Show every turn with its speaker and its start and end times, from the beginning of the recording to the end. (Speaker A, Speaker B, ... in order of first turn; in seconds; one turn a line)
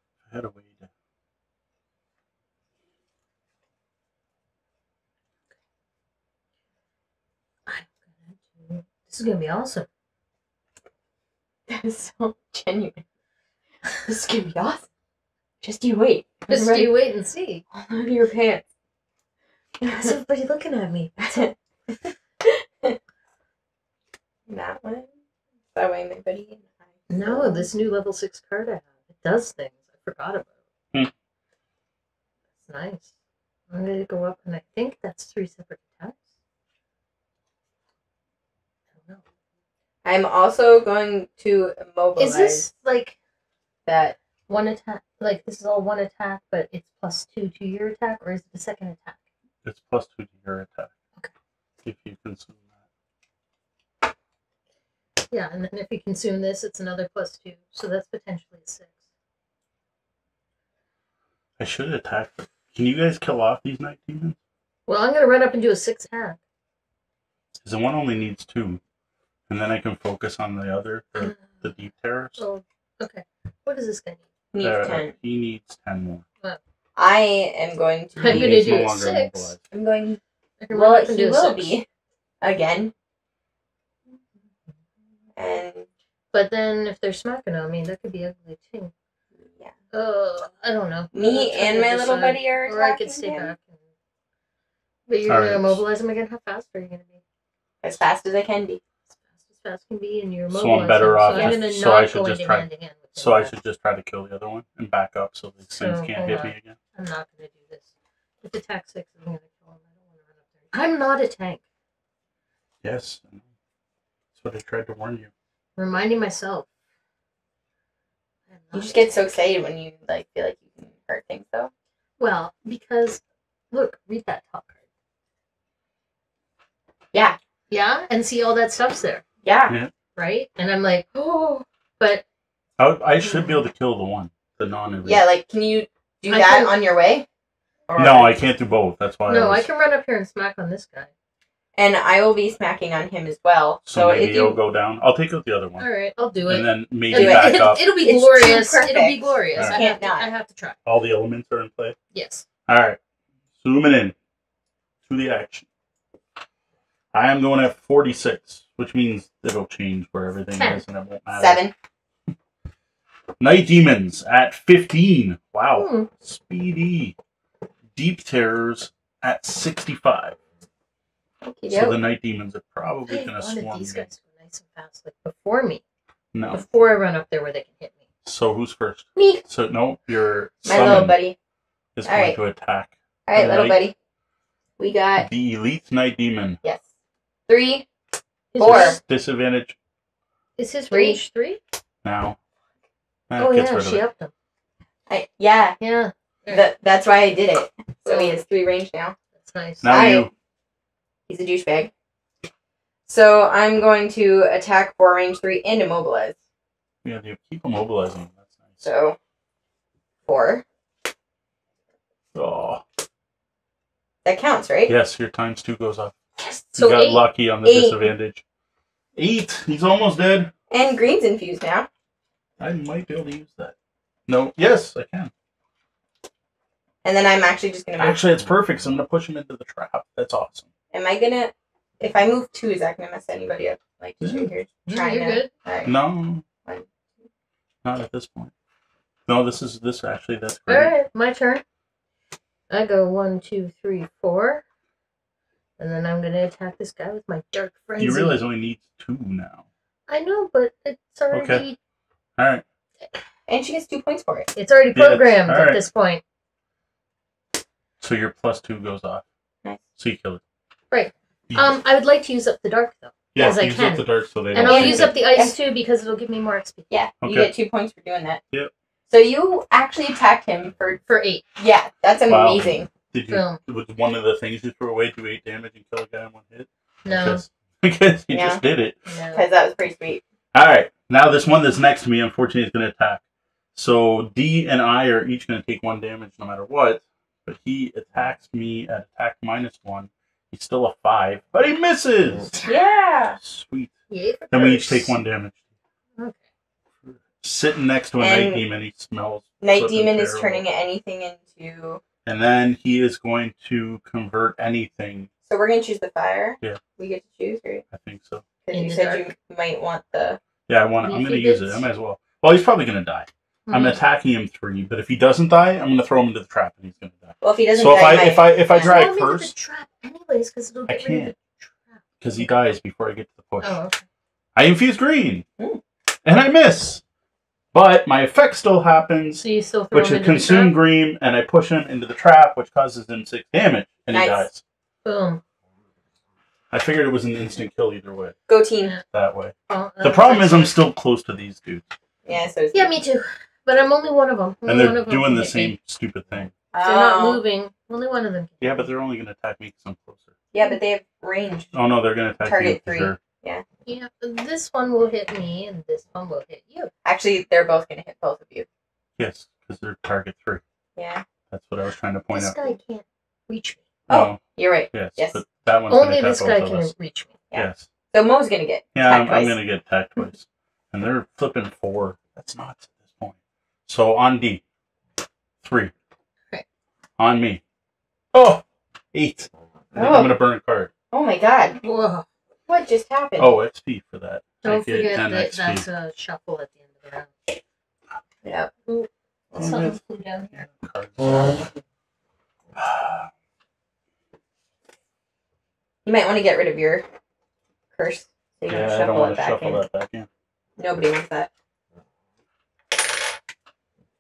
Speaker A: 0.2-0.9
Speaker B: 7.7-9.9
Speaker C: 11.7-13.0
Speaker C: 14.1-14.9
Speaker C: 15.6-16.9
Speaker B: 16.5-17.6
Speaker C: 17.7-18.6
Speaker C: 19.8-20.1
Speaker B: 19.9-21.4
Speaker C: 21.2-23.0
Speaker C: 24.5-25.1
Speaker C: 25.7-27.7
Speaker B: 27.1-30.5
Speaker B: 32.6-33.1
Speaker B: 33.7-36.3
Speaker C: 40.0-42.7
Speaker B: 42.2-43.1
Speaker C: 43.9-44.1
Speaker B: 44.5-49.2
Speaker A: 49.6-50.9
Speaker A: 51.8-52.7
Speaker B: 55.3-59.0
Speaker A: 61.6-64.4
Speaker B: 64.9-66.4
Speaker A: 67.6-68.8
Speaker A: 69.5-72.4
Speaker B: 71.2-71.6
Speaker B: 72.4-74.2
Speaker C: 74.5-75.1
Speaker A: 74.6-76.2
Speaker C: 77.0-78.8
Speaker A: 78.2-79.6
Speaker B: 78.2-79.5
Speaker C: 79.7-80.2
Speaker B: 80.6-81.8
Speaker C: 80.7-81.8
Speaker C: 82.4-82.9
Speaker C: 85.4-85.9
Speaker B: 86.3-88.9
Speaker C: 89.4-89.7
Speaker B: 89.9-93.8
Speaker C: 91.1-93.5
Speaker B: 95.1-97.2
Speaker A: 95.3-95.8
Speaker C: 97.8-98.8
Speaker B: 99.4-103.5
Speaker A: 100.5-106.8
Speaker C: 101.3-101.6
Speaker B: 105.7-107.9
Speaker B: 108.4-110.0
Speaker B: 110.7-111.6
Speaker A: 112.8-113.4
Speaker A: 114.3-115.3
Speaker B: 115.8-116.7
Speaker B: 118.5-119.3
Speaker C: 118.7-121.7
Speaker B: 122.2-123.2
Speaker B: 123.7-124.8
Speaker C: 127.1-127.4
Speaker B: 127.7-129.2
Speaker C: 129.4-129.7
Speaker B: 130.2-132.2
Speaker C: 131.2-131.6
Speaker A: 132.8-135.2
Speaker B: 133.2-133.6
Speaker C: 135.0-137.2
Speaker B: 136.3-136.7
Speaker C: 137.9-138.3
Speaker A: 138.0-139.7
Speaker B: 139.3-141.1
Speaker C: 141.8-144.6
Speaker A: 143.8-145.8
Speaker B: 145.8-150.8
Speaker A: 146.5-147.8
Speaker C: 147.1-150.3
Speaker A: 150.8-151.9
Speaker B: 152.1-152.4
Speaker A: 152.7-153.0
Speaker A: 153.6-154.1
Speaker A: 155.1-155.7
Speaker A: 157.1-161.6
Speaker B: 160.6-160.8
Speaker C: 161.3-161.7
Speaker A: 163.4-167.2
Speaker B: 165.8-166.1
Speaker A: 167.9-170.4
Speaker C: 171.4-172.0
Speaker A: 171.7-174.1
Speaker B: 173.1-175.8
Speaker A: 176.3-176.7
Speaker B: 176.5-178.0
Speaker A: 178.2-181.2
Speaker C: 179.2-179.4
Speaker C: 180.6-181.3
Speaker A: 181.9-183.8
Speaker C: 182.0-182.4
Speaker C: 183.3-183.9
Speaker C: 184.8-185.3
Speaker A: 185.2-186.6
Speaker C: 187.5-187.8
Speaker B: 188.5-189.0
Speaker C: 188.6-188.9
Speaker A: 188.6-189.8
Speaker B: 190.6-191.6
Speaker C: 190.9-191.2
Speaker A: 192.0-192.4
Speaker A: 193.3-194.0
Speaker B: 193.4-194.3
Speaker C: 195.1-195.8
Speaker B: 195.8-196.7
Speaker C: 196.5-199.1
Speaker B: 198.0-198.4
Speaker B: 199.4-200.0
Speaker A: 199.8-200.3
Speaker C: 199.8-200.3
Speaker C: 201.3-201.9
Speaker C: 203.1-206.4
Speaker A: 207.0-208.8
Speaker C: 208.8-209.2
Speaker C: 210.2-210.6
Speaker A: 212.3-212.8
Speaker C: 214.2-214.9
Speaker A: 214.9-216.2
Speaker B: 216.7-217.2
Speaker A: 216.7-218.4
Speaker C: 217.6-218.0
Speaker A: 219.2-220.5
Speaker C: 220.7-221.9
Speaker A: 222.6-223.7
Speaker A: 224.3-225.3
Speaker C: 227.0-228.2
Speaker A: 228.0-230.7
Speaker C: 230.9-235.9
Speaker A: 234.2-234.5
Speaker B: 234.9-235.5
Speaker A: 235.8-236.4
Speaker A: 237.8-238.5
Speaker A: 239.3-240.9
Speaker B: 240.7-241.6
Speaker B: 242.7-244.6
Speaker B: 245.8-248.4
Speaker A: 248.0-249.6
Speaker B: 250.1-251.8
Speaker A: 251.3-251.6
Speaker A: 252.4-252.6
Speaker C: 253.5-254.5
Speaker B: 254.5-256.2
Speaker A: 254.9-255.8
Speaker A: 258.0-259.2
Speaker A: 260.0-260.4
Speaker B: 260.9-266.9
Speaker A: 261.5-261.8
Speaker A: 263.3-265.1
Speaker C: 264.6-265.6
Speaker C: 266.9-268.4
Speaker A: 267.2-267.5
Speaker C: 269.1-271.0
Speaker B: 271.1-271.4
Speaker C: 271.6-272.9
Speaker A: 272.3-279.0
Speaker B: 273.3-273.6
Speaker B: 277.0-277.4
Speaker C: 278.3-278.6
Speaker B: 279.1-279.4
Speaker C: 279.3-280.2
Speaker A: 280.5-283.2
Speaker A: 283.7-292.7
Speaker C: 292.7-293.4
Speaker A: 293.4-293.9
Speaker B: 294.1-295.1
Speaker A: 294.5-295.6
Speaker A: 297.0-300.6
Speaker C: 298.2-298.6
Speaker C: 299.6-302.0
Speaker A: 302.2-305.3
Speaker C: 305.4-307.8
Speaker A: 307.9-308.4
Speaker C: 308.6-310.4
Speaker B: 308.7-309.2
Speaker A: 310.7-319.5
Speaker B: 311.0-311.8
Speaker B: 313.7-314.0
Speaker C: 317.4-319.0
Speaker B: 318.7-322.0
Speaker A: 320.9-321.3
Speaker A: 322.2-323.8
Speaker B: 323.6-324.0
Speaker A: 324.5-325.4
Speaker A: 326.2-327.0
Speaker A: 327.7-334.6
Speaker B: 329.4-330.8
Speaker C: 334.1-334.4
Speaker B: 335.0-335.4
Speaker A: 336.7-338.4
Speaker C: 338.5-338.9
Speaker A: 339.1-341.9
Speaker B: 339.7-340.7
Speaker C: 342.2-342.9
Speaker B: 342.7-345.8
Speaker A: 344.6-346.5
Speaker C: 346.7-347.4
Speaker B: 346.8-348.9
Speaker A: 348.6-350.3
Speaker C: 350.5-351.7
Speaker A: 351.7-353.2
Speaker C: 352.4-353.6
Speaker B: 353.9-356.9
Speaker C: 357.0-358.6
Speaker A: 359.2-360.6
Speaker C: 360.9-361.2
Speaker A: 361.5-362.7
Speaker B: 362.3-363.8
Speaker C: 364.1-365.4
Speaker A: 364.1-364.4
Speaker A: 364.9-366.9
Speaker B: 365.9-367.3
Speaker C: 367.5-369.6
Speaker A: 367.5-367.9
Speaker A: 368.9-374.6
Speaker A: 375.6-375.9
Speaker A: 377.2-377.6
Speaker A: 378.3-380.9
Speaker C: 379.9-380.4
Speaker C: 381.1-381.8
Speaker B: 381.8-382.2
Speaker C: 382.7-383.6
Speaker A: 383.4-385.8
Speaker B: 384.6-387.5
Speaker C: 388.4-388.7
Speaker B: 388.9-390.7
Speaker A: 389.5-390.0
Speaker A: 390.6-391.7
Speaker A: 392.8-393.3
Speaker C: 396.0-397.1
Speaker C: 397.9-399.8
Speaker A: 398.7-400.3
Speaker C: 400.8-401.5